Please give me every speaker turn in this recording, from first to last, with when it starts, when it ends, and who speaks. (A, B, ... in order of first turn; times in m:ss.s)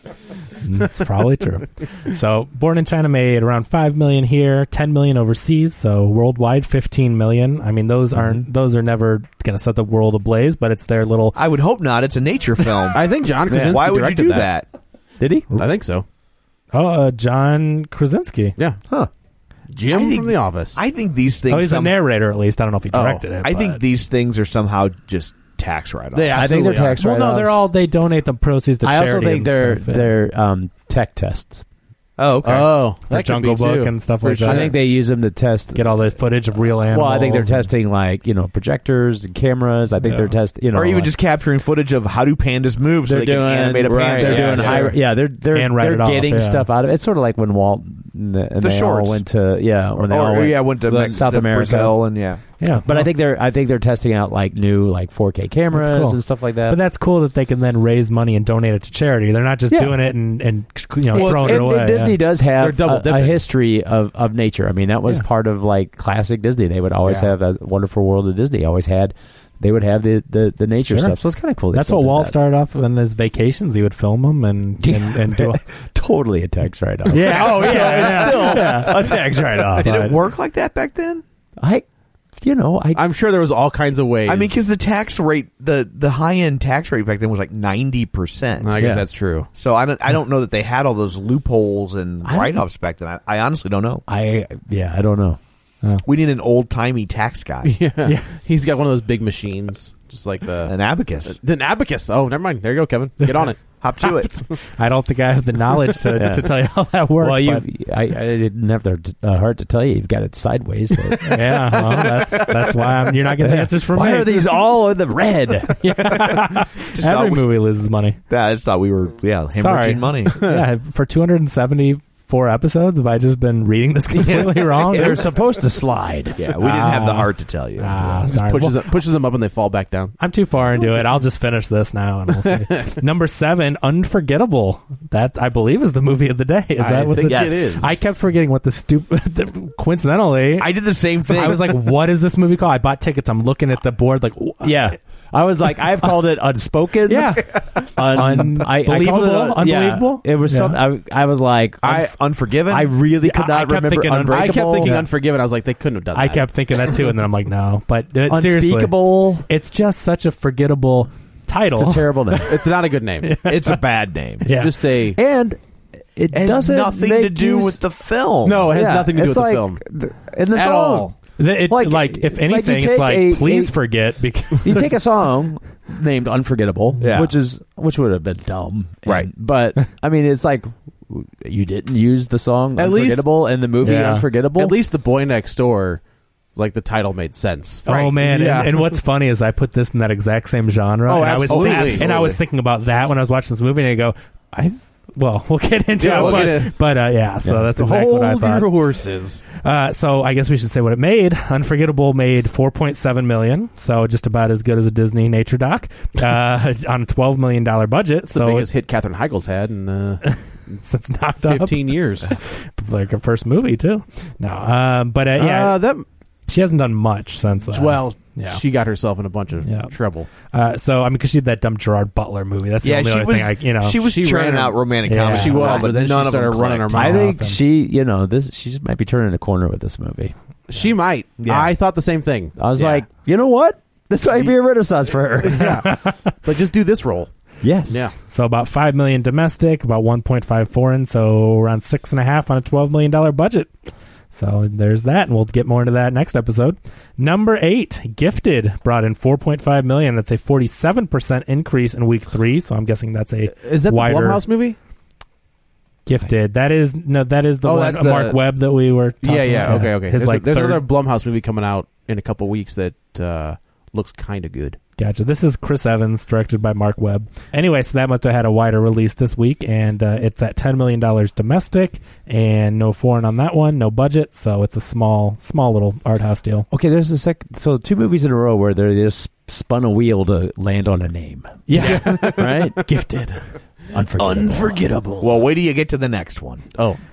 0:00.6-0:11.4 A
0:08.2-0:08.5 B
0:11.4-0:13.0 C
0:12.9-0:14.5 D
0:13.5-0:13.9 B
0:13.5-0:14.7 C
0:15.2-0:15.5 B
0:15.6-0:16.0 D
0:16.7-0:18.6 A
0:19.7-0:20.8 D
0:19.9-0:22.0 C
0:21.5-0:23.8 A
0:22.9-0:23.3 D
0:23.4-0:26.5 C
0:26.1-0:27.0 D
0:26.3-0:27.7 B
0:27.0-0:30.1 A
0:28.8-0:31.6 B
0:32.2-0:32.7 C
0:32.4-0:34.8 D
0:33.1-0:34.8 A
0:34.4-0:41.1 B
0:35.7-0:37.7 A
0:40.0-0:40.4 A
0:40.7-0:45.0 C
0:43.0-0:52.0 B
0:43.8-0:45.0 D
0:45.5-0:46.7 A
0:48.6-0:49.2 C
0:50.0-0:52.4 C
0:52.6-0:53.1 A
0:52.7-0:56.8 B
0:55.7-1:02.2 A
0:59.7-1:00.0 B
1:01.1-1:12.4 B
1:01.2-1:01.7 C
1:01.2-1:01.7 D
1:02.6-1:03.4 D
1:10.9-1:15.6 A
1:14.8-1:20.0 B
1:17.1-1:18.9 A
1:17.1-1:19.0 D
1:19.8-1:21.2 C
1:19.8-1:20.2 A
1:21.6-1:21.8 B
1:22.4-1:23.0 B
1:23.0-1:24.7 D
1:24.2-1:28.8 C
1:28.6-1:29.5 D
1:28.8-1:29.0 B
1:29.5-1:34.0 C
1:32.2-1:32.6 B
1:34.1-1:35.4 B
1:36.0-1:37.8 C
1:37.6-1:43.6 D
1:40.6-1:41.4 C
1:43.2-1:43.5 A
1:43.8-1:44.4 C
1:44.5-1:47.7 A
1:46.2-1:46.6 B
1:47.2-1:52.8 B
1:51.2-1:54.5 A
1:53.4-1:55.8 B
1:55.8-1:58.2 A
1:56.2-2:00.4 C
1:59.6-2:05.3 A
2:00.3-2:00.6 D
2:04.2-2:06.4 B
2:06.4-2:08.3 C
2:06.6-2:08.8 A
2:08.3-2:10.2 D
2:10.2-2:24.9 A
2:12.4-2:12.9 D
2:16.8-2:17.9 D
2:17.2-2:18.1 C
2:20.6-2:21.8 C
2:24.6-2:32.0 B
2:27.1-2:30.8 A
2:31.8-2:33.0 C
2:32.7-2:35.1 B
2:33.2-2:35.1 A
2:33.9-2:34.3 C
2:34.3-2:36.9 D
2:36.1-2:42.6 A
2:38.3-2:39.4 B
2:41.8-2:42.6 B
2:42.5-2:43.4 D
2:43.2-2:43.8 A
2:43.4-2:44.5 C
2:44.4-2:44.7 A
2:44.5-2:45.2 D
2:45.2-2:45.6 B
2:46.2-2:47.8 B
2:46.3-2:48.7 C
2:48.4-2:49.8 D
2:48.7-2:51.1 B
2:50.5-2:51.1 D
2:51.4-2:55.0 A
2:51.7-2:53.8 B
2:54.6-3:04.8 B
2:57.0-2:57.4 C
3:02.8-3:03.3 D
3:03.8-3:04.3 A
3:04.6-3:06.0 D
3:06.6-3:09.0 D
3:07.9-3:18.7 A
3:11.1-3:12.4 D
3:11.5-3:12.4 C
3:16.0-3:16.7 D
3:16.1-3:16.5 C
3:17.4-3:17.7 B
3:17.8-3:19.4 D
3:19.6-3:28.7 A
3:28.3-3:30.2 D
3:30.2-3:35.8 A
3:31.4-3:32.3 D
3:35.4-3:36.1 D
3:36.5-3:38.6 A
3:37.7-3:40.3 D
3:39.6-3:44.0 A
3:42.8-3:47.1 C
3:44.0-3:47.2 D
3:45.1-3:45.6 A
3:45.6-3:45.9 B
3:46.9-3:50.3 B
3:47.0-3:47.6 A
3:50.7-3:53.0 D
3:51.4-3:51.7 C
3:52.6-3:55.7 B
3:55.4-3:57.3 D
3:55.6-3:56.3 A
3:57.6-3:58.1 B
3:57.9-3:58.2 D
3:58.2-4:03.7 A
4:04.3-4:14.4 A
4:13.6-4:14.8 D
4:16.1-4:20.8 A
4:17.6-4:18.4 D
4:19.2-4:24.8 D
4:25.0-4:36.7 A
4:36.7-4:42.8 B
4:41.7-4:43.4 A
4:41.8-4:42.7 D
4:41.8-4:42.2 C
4:43.9-4:44.9 B
4:44.2-4:45.3 D
4:44.3-4:46.6 C